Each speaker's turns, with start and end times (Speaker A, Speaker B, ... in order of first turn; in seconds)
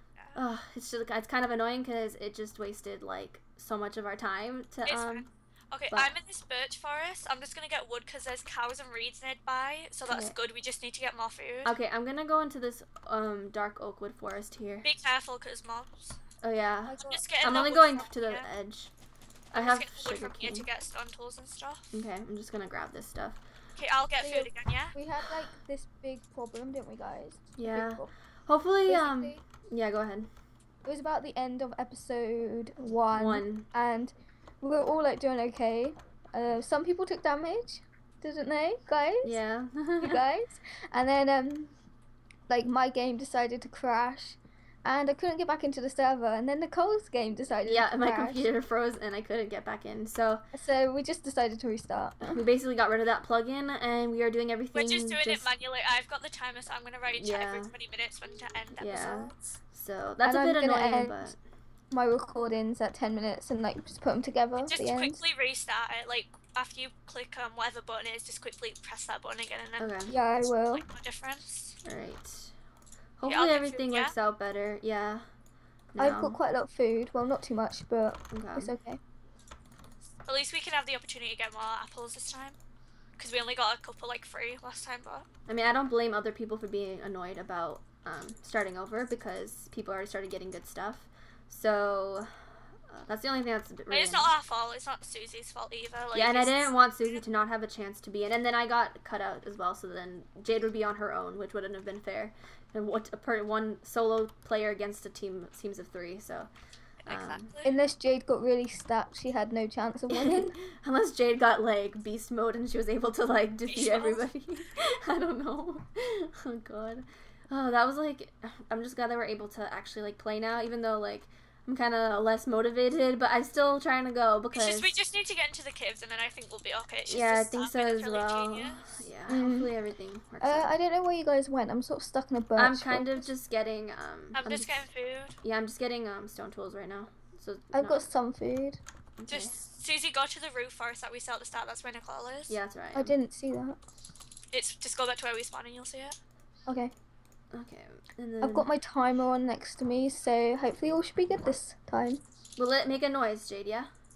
Speaker A: 0.3-5.3, 10.1-10.4, 11.7-14.9, 16.4-18.9, 19.5-20.7, 21.9-23.4, 27.6-30.3, 33.1-33.7, 39.2-40.2, 47.7-50.5, 52.3-55.5, 57.2-57.7, 58.8-61.4, 69.8-70.2, 71.8-72.5, 73.2-75.3, 75.9-76.4, 78.3-78.7, 85.5-94.3, 96.1-106.5, 107.1-107.5, 110.1-124.9, 127.1-130.7, 132.6-134.9, 135.4-138.1, 139.2-139.6, 142.5-143.2, 147.5-148.7, 152.6-153.9
Speaker B: 4.9-11.8, 14.8-16.2, 17.0-18.5, 19.5-21.9, 23.8-25.0, 54.7-59.5, 64.6-69.9, 70.7-71.8, 73.3-74.1, 80.3-82.6, 83.2-85.3, 93.9-97.2, 107.0-107.7, 113.7-114.3, 124.5-129.1, 134.3-135.4, 139.3-142.6, 144.5-146.2
Speaker C: 16.9-17.3, 24.2-28.1, 28.9-29.4, 30.8-39.4, 40.0-41.7, 42.5-48.5, 50.5-52.4, 60.2-61.3, 61.9-65.2, 70.1-70.8, 76.0-79.0, 107.6-110.6, 129.3-129.7, 130.4-133.3, 137.7-138.8, 142.9-143.8, 146.7-146.9, 148.4-152.2